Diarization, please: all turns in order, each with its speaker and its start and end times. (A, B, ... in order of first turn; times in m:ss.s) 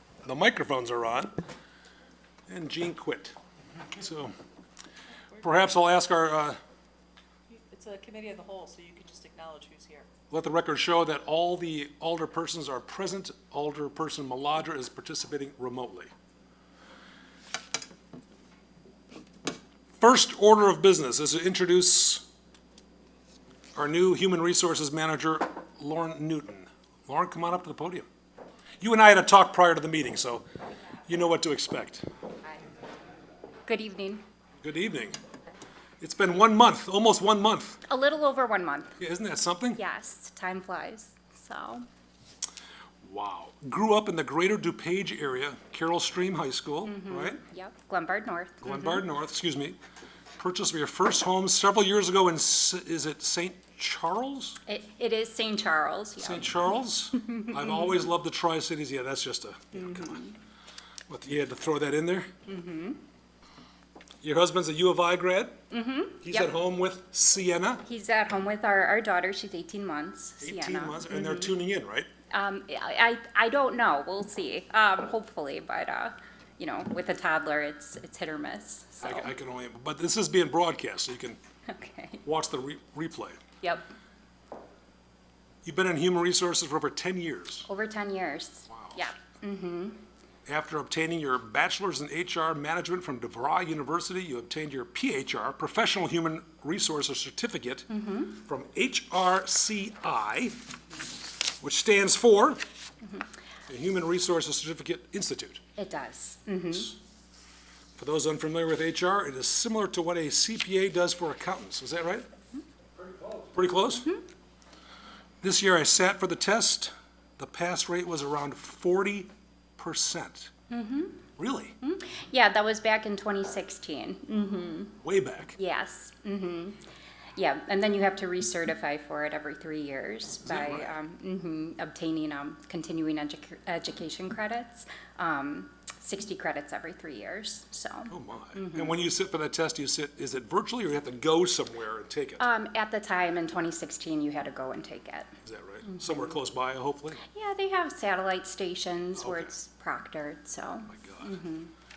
0:00.2-0:01.3 A
0:02.5-0:03.4 A
0:03.9-0:04.3 A
0:05.4-0:06.6 A
0:07.5-0:10.1 B
0:10.3-0:16.1 A
0:20.0-0:22.2 A
0:23.8-0:28.1 A
0:28.8-0:30.4 A
0:31.1-0:32.1 A
0:33.7-0:34.2 C
0:34.6-0:35.2 A
0:36.0-0:37.8 A
0:37.9-0:39.0 C
0:39.0-0:39.8 A
0:39.8-0:41.8 C
0:43.0-0:47.4 A
0:46.9-0:49.0 C
0:48.6-0:49.8 A
0:50.4-0:54.6 A
0:54.7-0:58.1 C
0:56.2-1:00.2 A
0:59.7-1:00.4 C
1:01.1-1:02.3 A
1:02.4-1:03.0 C
1:04.2-1:05.6 A
1:05.7-1:06.5 C
1:06.2-1:07.8 A
1:07.8-1:11.6 C
1:10.4-1:12.1 A
1:12.3-1:19.3 C
1:19.0-1:21.4 A
1:21.7-1:22.2 C
1:22.2-1:23.4 A
1:23.6-1:23.9 C
1:25.6-1:27.7 A
1:27.7-1:30.0 C
1:28.7-1:29.0 A
1:30.4-1:40.6 A
1:37.9-1:38.4 C
1:41.6-1:42.6 A
1:43.7-1:45.6 A
1:45.8-1:47.0 C
1:48.0-1:52.3 A
1:53.0-1:54.1 A
1:55.4-2:00.5 A
2:00.7-2:01.2 C
2:01.4-2:01.8 A
2:01.8-2:05.0 C
2:05.0-2:05.6 A
2:05.6-2:06.8 C
2:07.4-2:18.9 C
2:10.4-2:10.9 A
2:18.1-2:22.4 A
2:22.4-2:25.3 C
2:25.4-2:27.2 A
2:25.9-2:26.3 C
2:27.3-2:31.7 C
2:29.2-2:29.5 A
2:30.9-2:31.4 A